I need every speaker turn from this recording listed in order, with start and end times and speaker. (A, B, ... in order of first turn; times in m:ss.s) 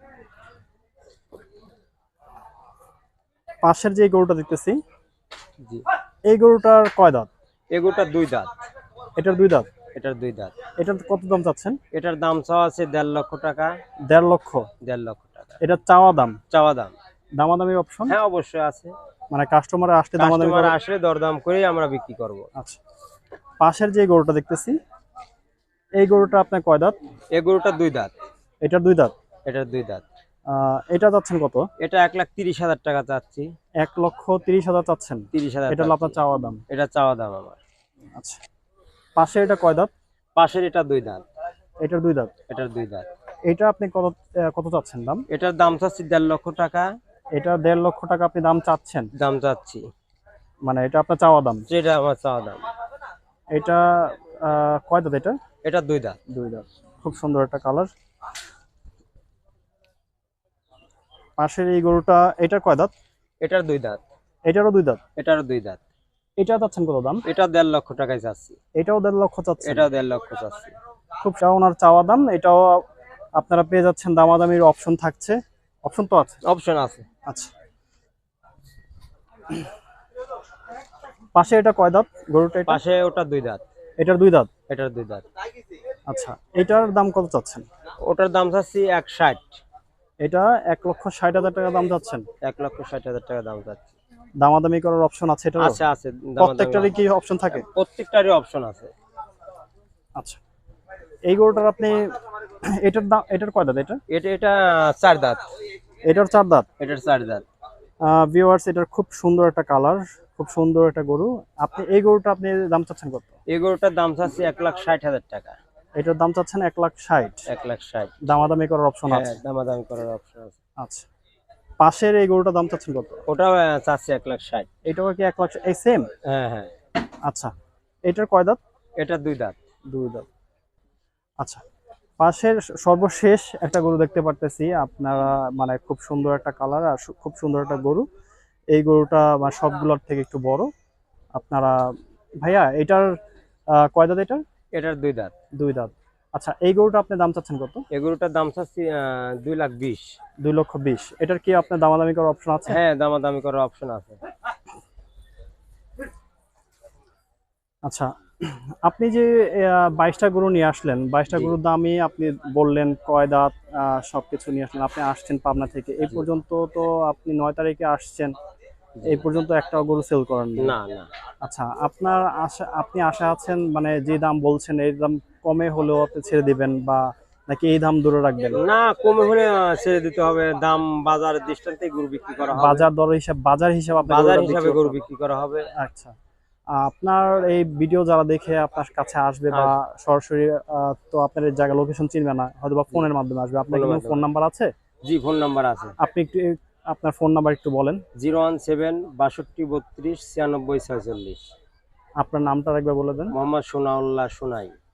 0:03.6-0:04.8 A
0:06.3-0:07.3 A
0:07.7-0:08.6 B
0:09.2-0:09.7 A
0:10.0-0:10.6 B
0:10.8-0:11.8 A
0:11.9-0:13.7 B
0:14.1-0:14.7 A
0:14.8-0:15.6 B
0:15.6-0:16.4 A
0:16.5-0:16.9 B
0:17.4-0:18.2 A
0:18.1-0:18.9 B
0:19.3-0:20.8 A
0:20.2-0:22.5 B
0:23.6-0:24.8 A
0:26.0-0:27.0 A
0:27.3-0:28.1 B
0:28.6-0:29.1 A
0:29.5-0:30.0 B
0:30.5-0:31.6 A
0:31.8-0:33.5 B
0:33.8-0:36.6 A
0:35.3-0:36.2 B
0:36.7-0:37.6 B
0:39.2-0:39.9 A
0:40.4-0:41.2 B
0:41.8-0:42.3 A
0:42.5-0:43.1 B
0:43.5-0:45.2 A
0:45.3-0:46.9 B
0:47.4-0:49.1 A
0:49.2-0:49.8 B
0:50.7-0:51.6 A
0:51.7-0:52.7 B
0:53.5-0:55.4 A
0:55.6-0:56.2 B
0:56.3-0:57.9 A
1:01.4-1:02.9 A
1:03.4-1:04.0 B
1:04.5-1:05.0 A
1:05.2-1:05.8 B
1:06.4-1:07.2 A
1:07.3-1:08.6 B
1:08.8-1:09.9 A
1:09.6-1:10.8 B
1:11.2-1:12.8 A
1:13.4-1:16.4 A
1:16.4-1:17.1 B
1:21.4-1:22.8 A
1:22.7-1:23.6 B
1:24.0-1:24.5 A
1:24.7-1:25.3 B
1:26.1-1:27.6 A
1:28.1-1:29.6 B
1:30.2-1:32.2 A
1:32.4-1:34.0 B
1:34.4-1:35.8 A
1:35.6-1:36.9 B
1:36.4-1:37.6 A
1:37.5-1:38.9 B
1:41.3-1:42.1 A
1:42.8-1:44.0 A
1:44.1-1:45.5 B
1:46.1-1:46.7 A
1:46.8-1:47.4 B
1:48.0-1:53.3 A
1:53.5-1:55.6 B
1:56.0-1:57.4 A
1:57.5-1:58.1 B
1:58.3-1:59.4 A
1:59.1-2:00.6 B
2:00.8-2:01.1 A
2:01.8-2:03.2 A
2:03.3-2:04.7 B
2:04.9-2:06.1 A
2:06.2-2:06.7 B
2:08.1-2:08.6 A
2:09.0-2:09.6 B
2:09.9-2:10.3 A
2:12.2-2:18.1 A
2:18.7-2:20.7 A
2:21.4-2:23.1 A
2:23.8-2:24.4 A
2:24.8-2:25.3 B
2:25.6-2:27.8 A
2:27.9-2:30.1 B
2:30.4-2:32.8 A
2:32.7-2:34.2 B
2:37.8-2:48.3 A
2:49.0-2:50.8 A
2:50.6-2:51.1 B
2:51.4-2:58.6 A
2:58.6-3:02.9 B
3:02.5-3:05.0 A
3:04.0-3:05.7 B
3:05.8-3:06.1 A
3:06.7-3:14.7 A
3:09.5-3:09.8 B
3:13.7-3:14.2 B
3:15.0-3:16.0 B
3:16.0-3:18.0 A
3:18.2-3:21.4 B
3:22.2-3:23.3 A
3:23.3-3:24.7 B